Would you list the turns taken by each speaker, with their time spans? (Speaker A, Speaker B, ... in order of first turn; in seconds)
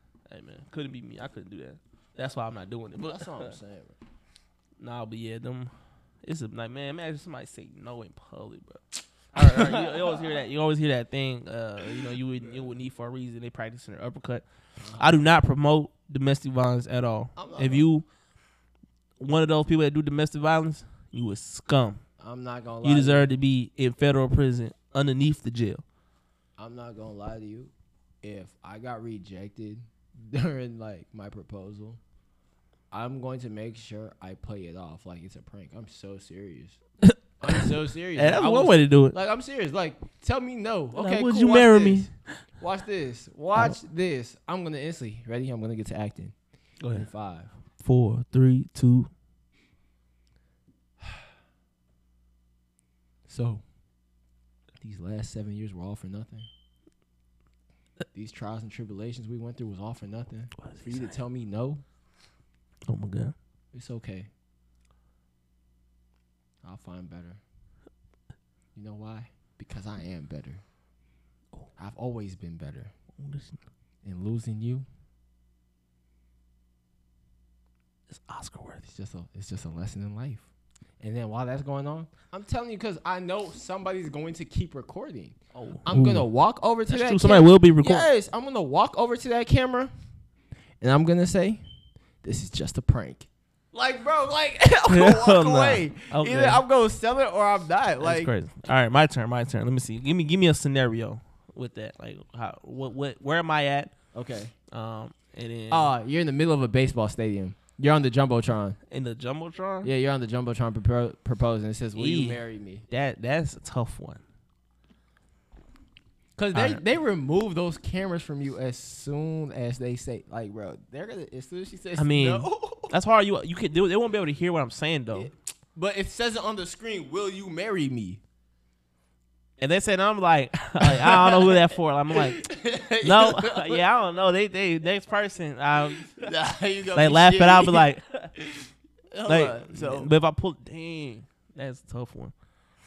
Speaker A: 0.3-3.6, 4.8-5.7, 6.2-14.4, 15.0-18.1, 19.2-22.0, 22.8-25.8, 37.0-39.2, 41.0-42.4, 43.5-43.8, 46.8-47.1, 47.8-49.1, 60.6-61.1, 62.9-63.3, 73.2-73.6, 78.1-78.8, 85.5-86.3, 86.9-88.1, 94.9-96.6, 98.0-103.9, 104.7-105.9, 108.9-109.9, 112.0-114.2, 116.5-116.8, 122.0-125.3, 129.6-132.4, 133.0-136.3, 136.9-138.3, 139.3-142.3
Speaker B: 3.0-4.0, 9.4-10.4, 11.9-12.7, 14.8-15.1, 17.4-17.9, 22.2-23.3, 26.6-32.0, 32.9-36.8, 37.4-46.4, 46.9-47.5, 53.3-53.6, 54.8-56.5, 58.1-61.8, 63.7-64.3, 66.6-67.4, 68.8-70.6, 71.8-72.9, 74.0-74.9, 78.8-80.5, 81.0-89.9, 90.8-91.6, 92.2-98.3, 104.1-104.5, 105.7-108.8, 109.8-112.8, 116.4-122.9, 125.1-128.2, 130.8-133.8, 136.0-137.9, 138.4-140.1